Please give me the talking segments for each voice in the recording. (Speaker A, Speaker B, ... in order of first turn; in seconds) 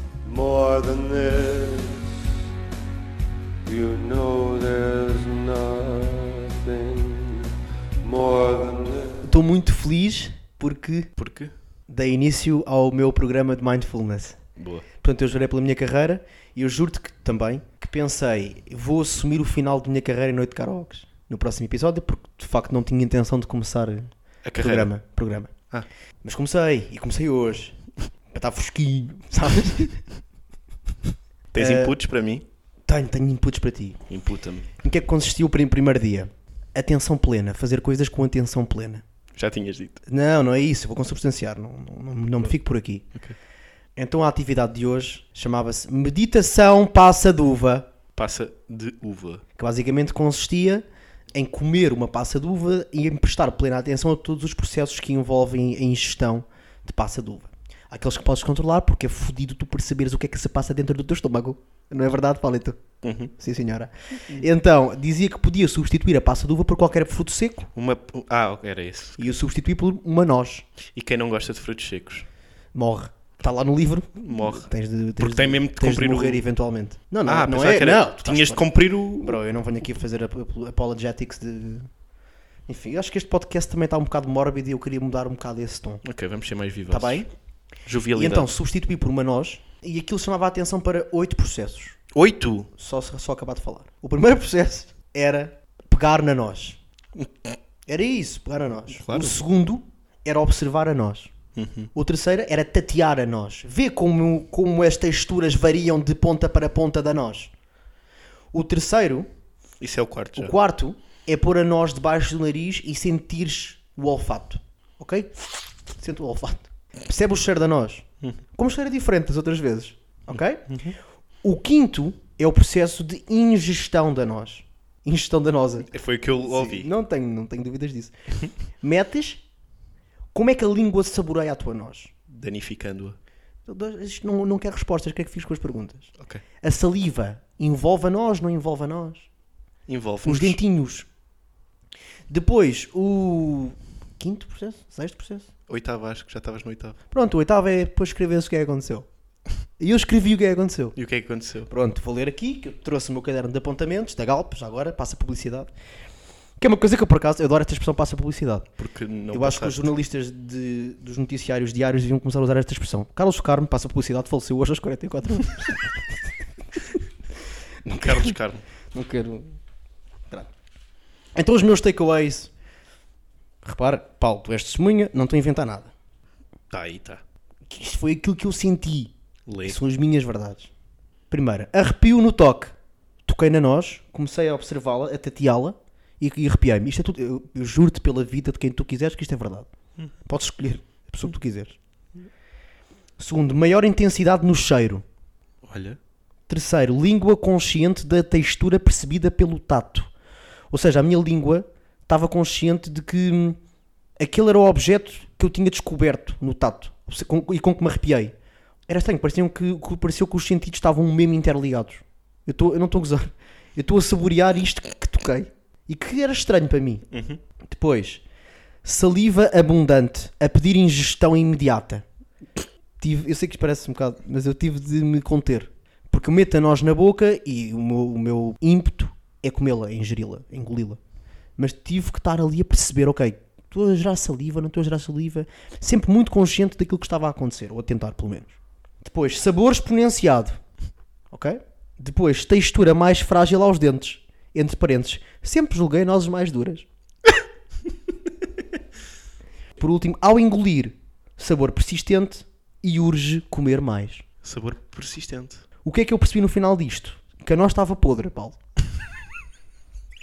Speaker A: 0.2-2.1, 3.6-7.5, 8.0-9.2
Speaker B: 9.2-11.1, 11.9-14.4, 15.0-25.5, 26.2-27.8, 28.3-30.0, 31.6-31.9, 32.9-34.0, 34.8-39.0, 40.0-43.1, 44.0-47.9, 49.5-50.8, 51.3-62.8, 63.4-67.7, 69.2-70.7, 72.7-78.7, 79.2-81.9, 82.7-86.0, 86.9-87.3, 88.1-92.0, 92.8-96.8, 97.9-101.3, 101.9-107.5, 108.5-109.3, 110.3-115.4, 115.9-120.8, 121.4-128.1, 128.8-129.4, 130.3-132.1, 133.7-136.1, 136.6-139.3, 140.2-141.1, 142.3-145.5, 147.1-149.1, 149.8-151.0, 151.7-155.7, 156.6-158.7, 159.3-165.9, 167.9-168.3, 168.9-169.6, 171.3-172.5, 173.6-175.9, 177.7-180.7, 181.3-182.7, 183.2-189.7, 190.2-191.8, 193.2-195.0, 196.5-200.1, 200.7-203.6, 204.2-208.3, 208.9-217.1, 217.6-218.2, 218.8-222.0, 223.0-231.0, 231.6-240.6, 241.3-246.8, 249.8-254.2, 255.8-258.6
Speaker C: 11.2-11.5, 14.6-14.8, 24.4-24.9, 31.5-32.4, 34.1-34.7, 39.3-40.0, 48.1-49.4, 63.0-63.3, 67.7-69.3, 70.8-72.2, 74.2-76.4, 77.2-79.4, 86.0-87.2, 87.8-88.5, 92.1-92.7, 98.9-99.3, 101.5-101.9, 109.8-110.5, 120.7-120.9, 125.9-126.9, 132.3-133.2, 136.2-136.4, 139.9-140.6, 145.7-147.0, 150.9-151.7, 158.8-159.9, 167.8-168.6, 176.7-177.2, 179.4-179.8, 195.6-196.0, 217.1-217.4, 254.4-255.6